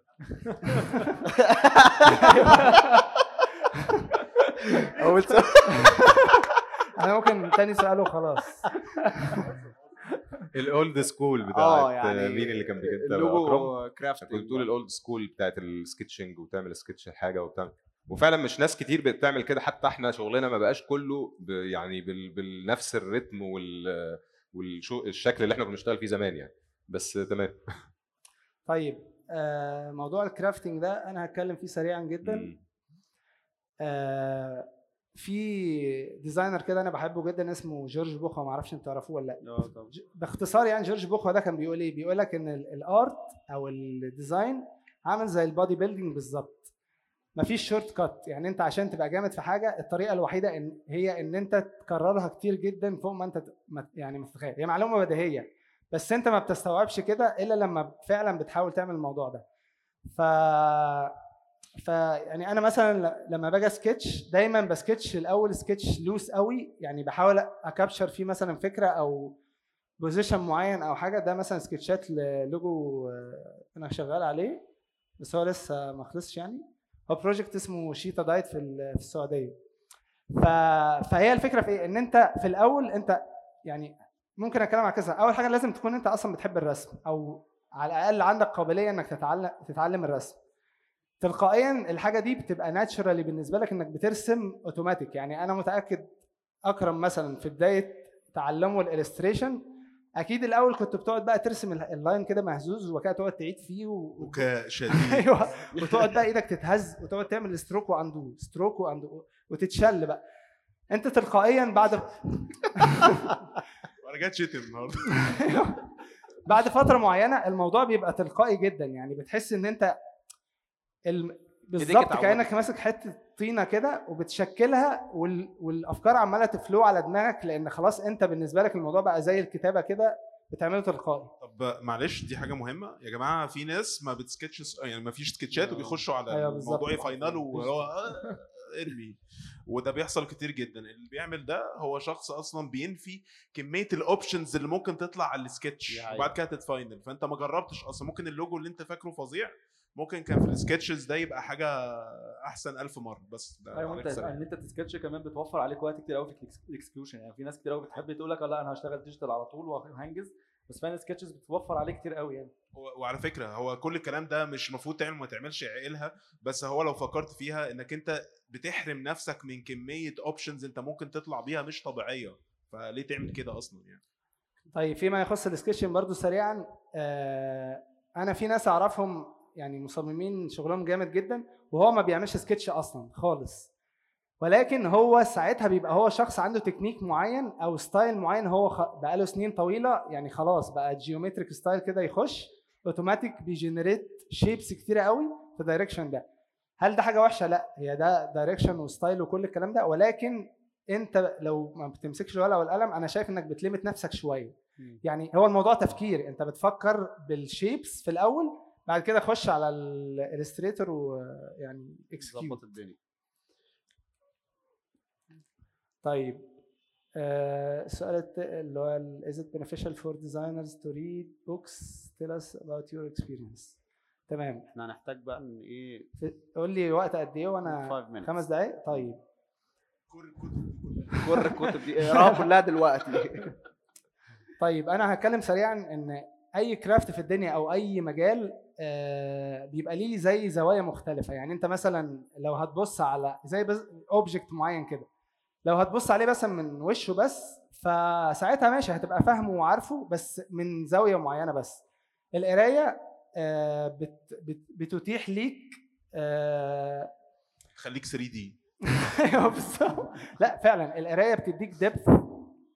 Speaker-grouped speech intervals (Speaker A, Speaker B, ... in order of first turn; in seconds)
Speaker A: 0.7-1.2, 2.1-2.8, 5.6-6.2, 6.9-9.4, 28.7-32.5, 33.8-46.7, 47.4-59.4, 60.1-61.1, 61.8-69.4, 70.0-74.6, 75.2-79.6, 80.4-90.4, 91.2-96.1, 96.7-99.6, 100.2-110.2, 110.9-113.3, 115.2-115.8, 116.5-120.0, 121.1-131.3, 136.3-137.7, 174.7-183.7, 184.4-196.2, 196.8-212.6, 216.0-216.5, 217.2-223.7, 224.3-224.7, 226.2-229.2, 231.7-232.4, 234.6-245.1, 245.7-251.8, 252.3-257.1, 258.9-262.4
Speaker B: 1.3-2.3, 4.9-5.9, 11.5-14.7, 39.4-39.9, 105.8-106.0, 121.8-122.7, 135.5-136.0, 145.9-146.3, 212.2-213.0, 224.7-226.1, 227.7-228.4, 231.2-233.5
Speaker C: 10.5-27.6, 32.2-32.6
Speaker D: 104.2-105.3, 114.0-115.3, 131.4-154.4, 162.8-174.0, 230.1-231.5, 257.8-258.6
Speaker E: 153.7-162.5